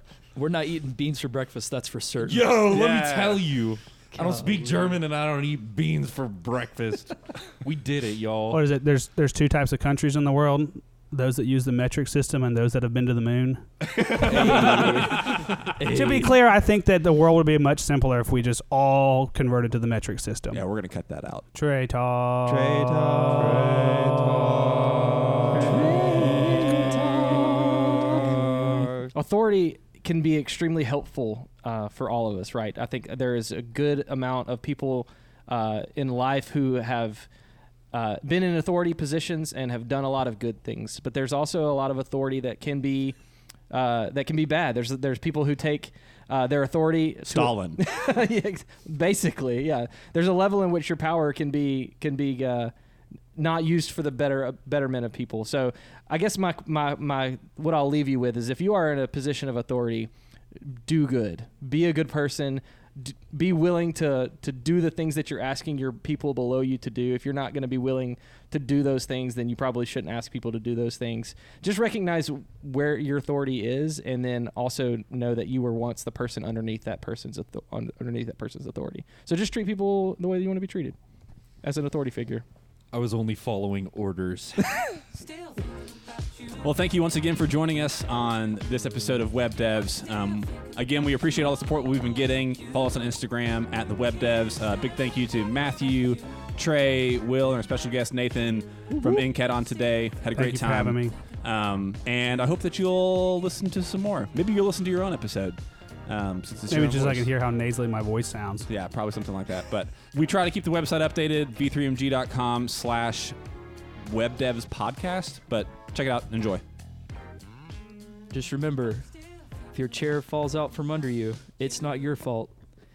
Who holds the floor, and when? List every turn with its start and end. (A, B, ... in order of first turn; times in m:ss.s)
0:00.3-0:02.5 A
0:02.2-0:08.6 B
0:02.7-0:03.5 C
0:04.1-0:04.8 A
0:08.5-0:15.3 D
0:14.0-0:15.5 C
0:14.2-0:16.4 A
0:14.2-0:15.2 B
0:15.8-0:20.6 D
0:20.5-0:21.4 C
0:21.5-0:22.9 D
0:22.7-0:29.1 B
0:22.8-0:24.4 A
0:25.6-0:26.8 E
0:29.1-0:37.3 E
0:37.9-0:43.2 E
0:43.7-0:52.7 E
0:47.2-0:47.8 C
0:53.3-1:21.0 E
1:21.6-1:22.4 E
1:22.9-1:24.9 B
1:26.6-1:47.3 C
1:40.4-1:41.1 D
1:46.7-1:48.7 D
1:48.7-1:53.4 C
1:54.0-1:56.6 C
1:58.3-1:59.1 A
1:59.7-2:02.5 A